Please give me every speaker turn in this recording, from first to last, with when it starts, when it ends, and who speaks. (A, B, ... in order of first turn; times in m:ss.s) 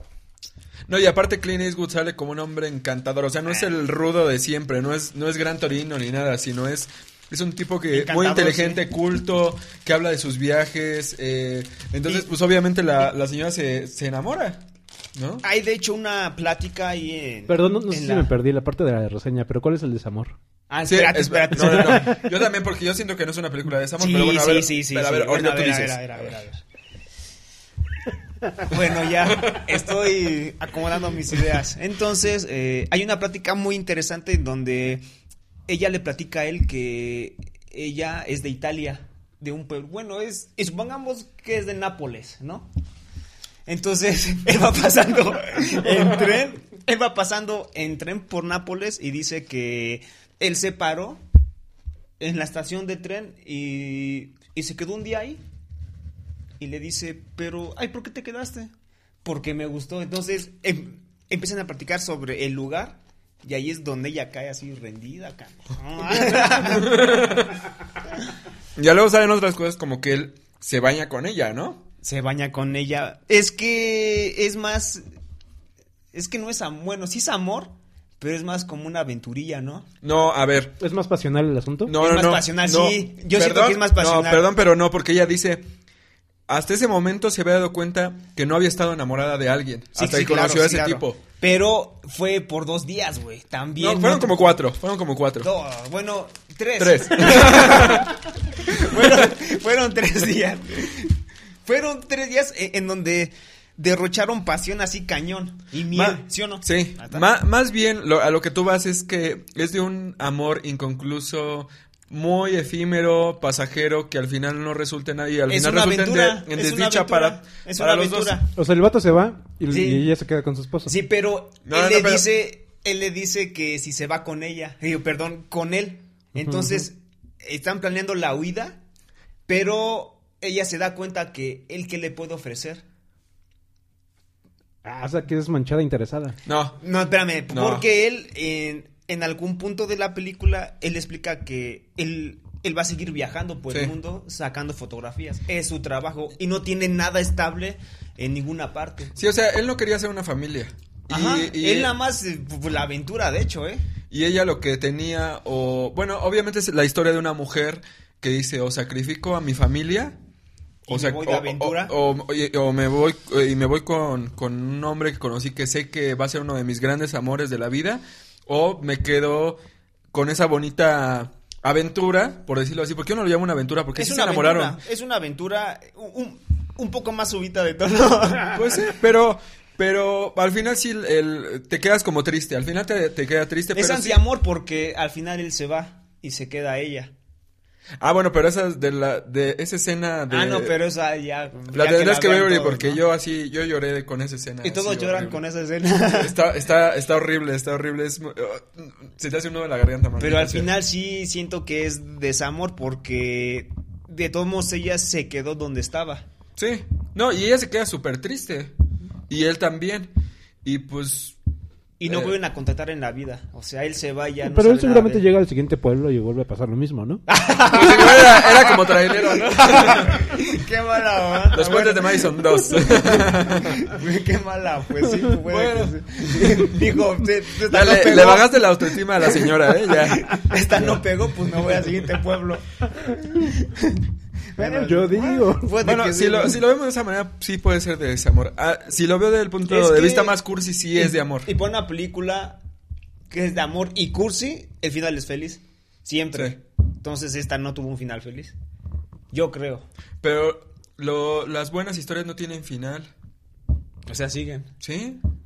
0:00.9-0:14.6 A
0:03.5-0:03.7 B
0:07.9-0:08.8 B
0:15.1-0:15.4 A
0:15.4-0:18.3 B
0:17.5-0:20.4 C
0:20.7-0:22.2 B
0:20.9-0:26.3 A
0:21.6-0:22.1 C
0:24.0-0:26.6 B
0:28.6-0:35.0 B
0:29.2-0:29.7 A
0:35.7-0:42.7 B
0:43.7-0:51.2 B
0:52.2-0:55.4 B
0:56.6-0:58.7 B
0:59.2-1:07.3 B
1:06.3-1:07.5 A
1:08.8-1:11.8 A
1:12.0-1:15.0 B
1:16.1-1:19.9 B
1:20.0-1:20.8 A
1:20.8-1:21.9 C
1:21.9-1:25.6 A
1:22.0-1:24.5 B
1:26.5-1:31.2 A
1:30.0-1:34.6 B
1:33.8-1:35.5 A
1:35.4-1:47.2 B
1:36.8-1:38.1 A
1:38.7-1:39.3 A
1:45.9-1:58.4 A
1:55.5-1:58.5 B
1:58.6-2:00.9 C
1:59.7-2:00.1 B
2:00.9-2:08.8 B
2:01.6-2:02.2 A
2:06.4-2:06.8 C
2:09.5-2:12.8 B
2:14.8-2:16.4 C
2:16.4-2:16.8 A
2:16.8-2:29.2 B
2:17.5-2:17.8 A
2:29.2-2:31.9 A
2:31.1-2:33.9 B
2:34.1-2:40.2 A
2:40.9-2:41.9 B
2:40.9-2:49.6 A
2:50.1-2:54.8 A
2:54.0-2:58.8 B
2:58.5-3:04.2 A
3:03.7-3:07.1 B
3:08.0-3:10.8 A
3:10.3-3:13.0 B
3:11.7-3:15.4 A
3:14.6-3:16.4 B
3:16.1-3:20.7 A
3:20.2-3:26.2 B
3:26.6-3:28.7 A
3:29.3-3:30.1 A
3:30.6-3:31.4 A
3:32.0-3:35.2 B
3:32.1-3:32.4 A
3:34.4-3:37.2 C
3:37.3-3:56.6 B
3:37.7-3:40.4 A
3:41.5-3:43.9 A
3:45.3-3:46.9 A
3:47.6-3:50.9 A
3:54.6-3:55.8 C
3:55.8-4:01.5 A
3:59.6-4:00.4 B
4:01.0-4:02.6 B
4:03.3-4:08.6 B
4:09.3-4:09.9 B
4:10.2-4:13.1 A
4:14.1-4:14.7 B
4:14.8-4:15.2 A